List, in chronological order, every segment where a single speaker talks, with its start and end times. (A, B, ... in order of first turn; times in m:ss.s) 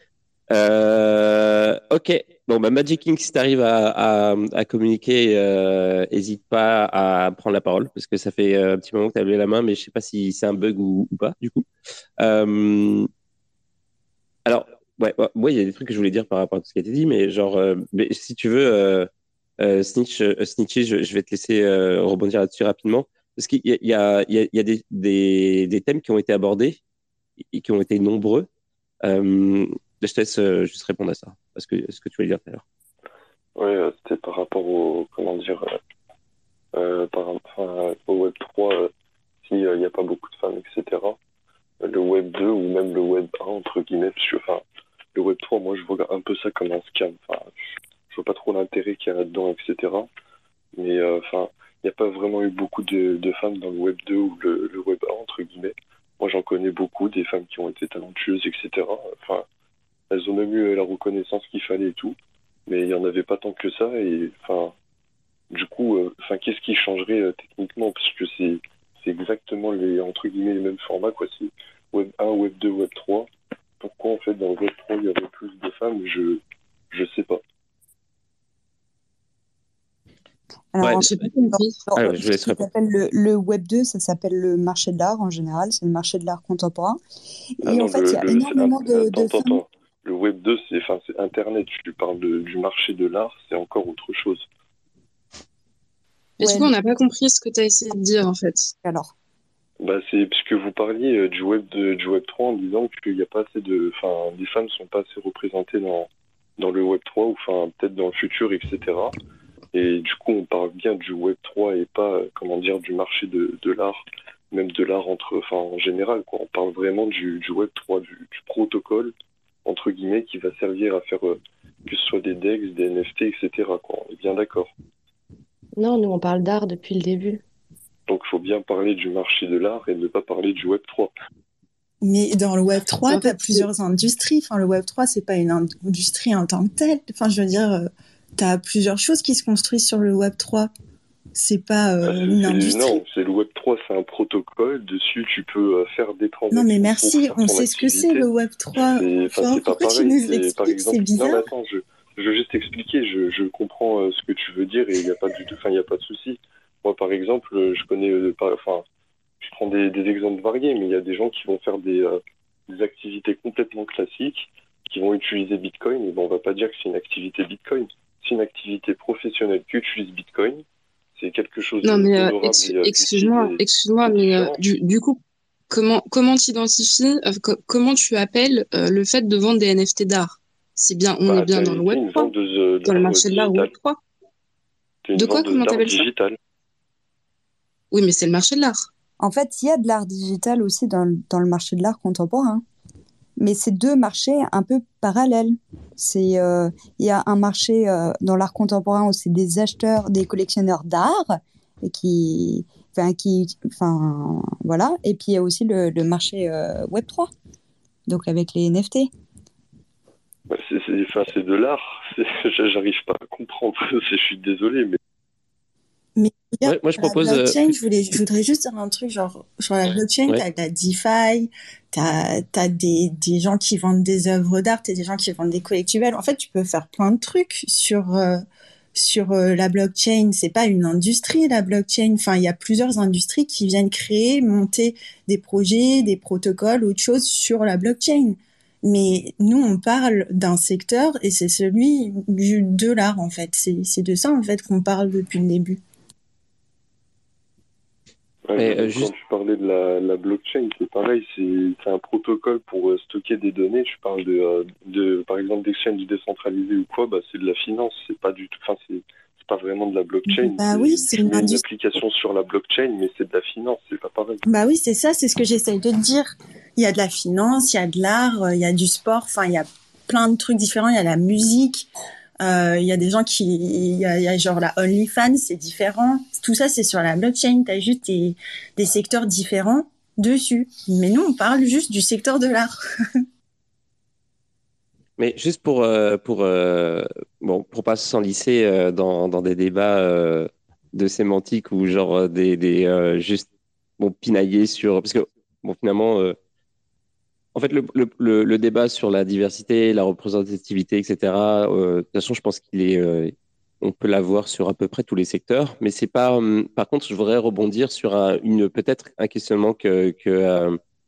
0:00.5-0:11.6 A
0:12.2-0:13.1 A
0:14.4-0:26.8 A
0:27.5-0:28.5 A
0:29.0-0:32.6 A
0:33.6-0:35.6 B
0:36.7-0:38.9 B
0:39.4-0:41.2 B
0:41.8-0:44.6 B
0:45.1-0:47.5 B
0:48.1-0:50.1 B
0:50.8-0:59.4 B
1:00.1-1:02.2 B
1:02.7-1:04.7 B
1:05.5-1:13.3 B
1:13.8-1:17.4 B
1:20.7-1:27.0 C
1:21.0-1:21.8 D
1:21.9-1:22.6 A
1:27.6-1:29.6 C
1:27.6-1:34.4 B
1:36.4-1:38.7 D
1:36.4-1:36.7 C
1:38.8-1:39.1 C
1:39.8-1:49.1 B
1:49.7-1:59.1 B
1:59.6-2:04.7 B
2:05.8-2:07.4 E
2:08.1-2:11.1 B
2:12.0-2:20.7 F
2:13.1-2:13.6 E
2:21.3-2:23.0 F
2:22.0-2:28.2 B
2:26.5-2:31.5 F
2:28.9-2:38.8 B
2:39.4-2:50.6 B
2:51.2-2:54.6 B
2:51.8-2:55.2 D
2:55.7-3:02.3 D
3:01.2-3:03.7 B
3:02.8-3:04.0 D
3:05.0-3:06.4 B
3:05.1-3:06.1 D
3:07.9-3:08.9 D
3:09.2-3:12.6 C
3:13.4-3:27.3 C
3:28.1-3:29.1 C
3:30.5-3:35.0 B
3:36.2-3:48.4 F
3:36.6-3:37.7 A
3:48.9-4:05.8 F
4:08.5-4:24.4 B
4:08.6-4:09.1 A
4:20.3-4:21.6 F
4:24.4-4:31.9 F
4:32.4-4:42.7 F
4:45.2-4:53.5 A
4:54.0-4:56.4 A
4:57.5-5:10.8 A